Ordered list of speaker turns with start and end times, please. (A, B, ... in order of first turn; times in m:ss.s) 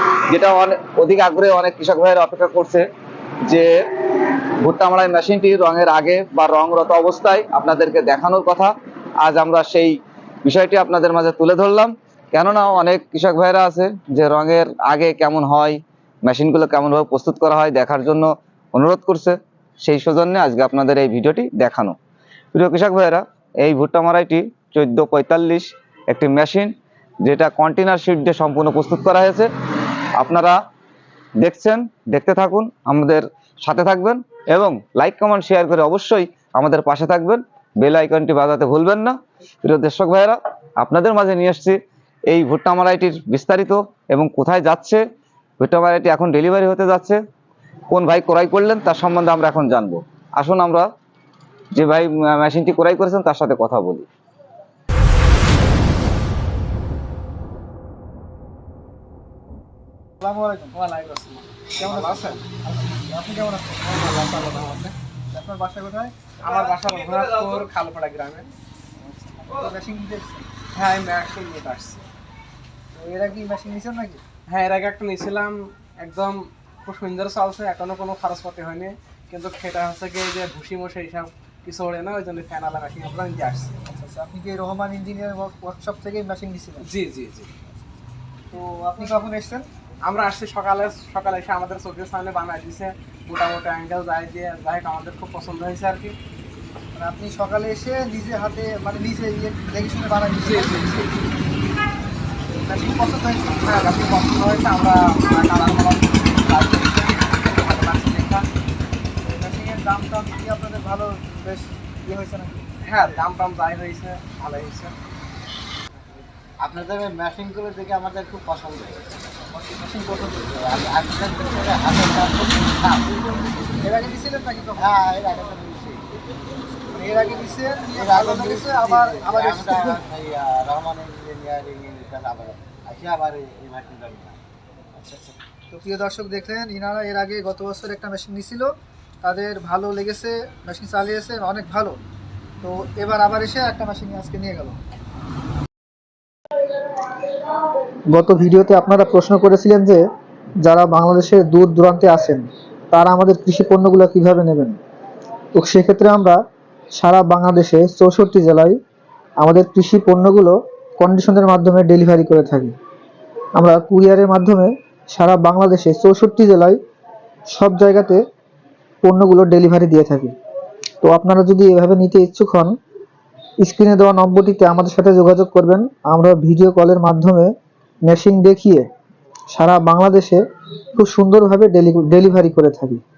0:00.3-0:02.8 A
0:03.5-0:22.0 A
0:22.5-0:26.7 A
0:27.2-0:29.5 A
0:30.2-0:30.6 A
0:31.4-0:41.8 A
0:42.3-0:45.0 A
0:45.6-0:47.2 A
0:47.9-0:50.9 A
0:51.7-0:54.1 A
1:00.2-1:00.8 B
1:00.7-1:02.4 C
1:01.8-1:03.9 B
1:03.8-1:04.9 C
1:05.3-1:06.1 B
1:06.4-1:08.5 C
1:09.0-1:10.5 B
1:10.7-1:12.0 C
1:12.9-1:14.2 B
1:14.5-1:23.8 C
1:23.8-1:26.9 B
1:26.8-1:27.5 C
1:28.5-1:29.6 B
1:30.1-1:36.1 C
1:36.9-1:40.8 B
1:40.4-1:41.1 C
1:42.6-1:43.7 B
1:43.6-1:48.4 C
1:49.4-1:52.6 B
1:52.8-1:54.9 C
1:56.6-1:59.3 D
1:59.4-2:00.6 B
2:00.5-2:03.4 D
2:03.8-2:04.9 B
2:04.8-2:06.1 D
2:06.9-2:10.0 B
2:07.9-2:14.4 D
2:15.0-2:18.7 B
2:19.2-2:22.0 B
2:22.6-2:24.8 B
2:28.1-2:30.0 B
2:30.6-2:34.8 B
2:35.5-2:36.4 B
2:36.9-2:38.8 B
2:39.4-2:42.7 B
2:43.5-2:46.8 B
2:47.5-2:48.2 B
2:49.0-2:50.3 B
2:51.0-2:52.7 B
2:53.6-2:57.5 B
2:58.0-2:58.9 B
2:59.5-3:00.4 B
3:01.0-3:03.0 B